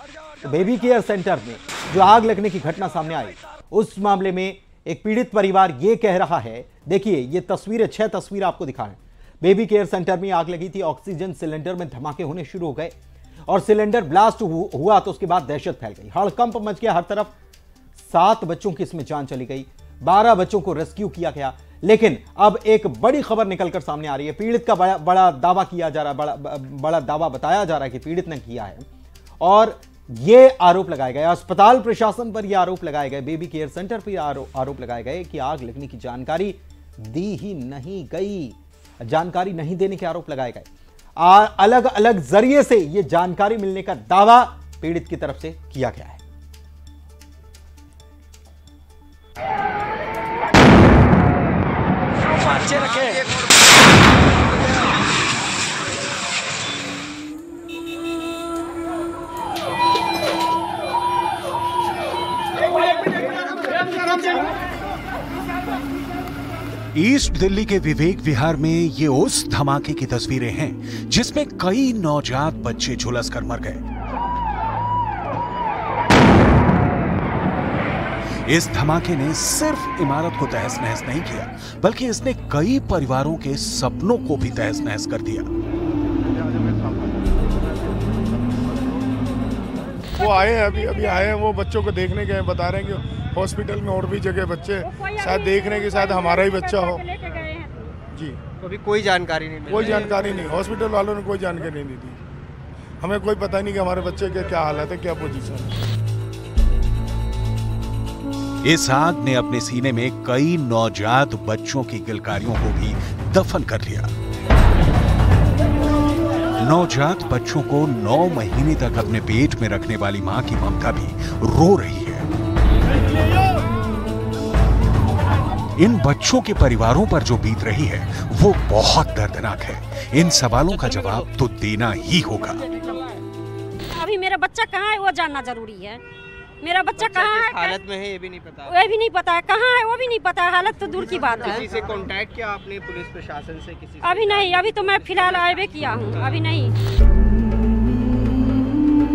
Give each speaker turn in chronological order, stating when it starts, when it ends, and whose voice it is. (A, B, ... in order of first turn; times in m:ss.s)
0:00.4-0:13.0 A
0:13.5-0:17.3 A
0:18.0-0:28.9 A
0:29.4-0:40.7 A
0:41.2-0:46.2 A
1:07.0-1:13.8 B
1:18.5-1:25.5 B
1:26.6-1:27.0 C
1:30.2-1:31.4 D
1:30.2-1:37.0 E
1:34.8-1:37.7 D
1:38.6-1:40.6 C
1:39.7-1:42.2 E
1:43.0-1:45.7 E
1:48.7-1:54.1 B
1:56.6-2:02.3 B
2:05.8-2:12.6 B
2:13.9-2:16.0 D
2:16.6-2:17.8 D
2:17.0-2:18.8 C
2:18.6-2:21.7 D
2:21.0-2:26.4 C
2:24.0-2:26.7 D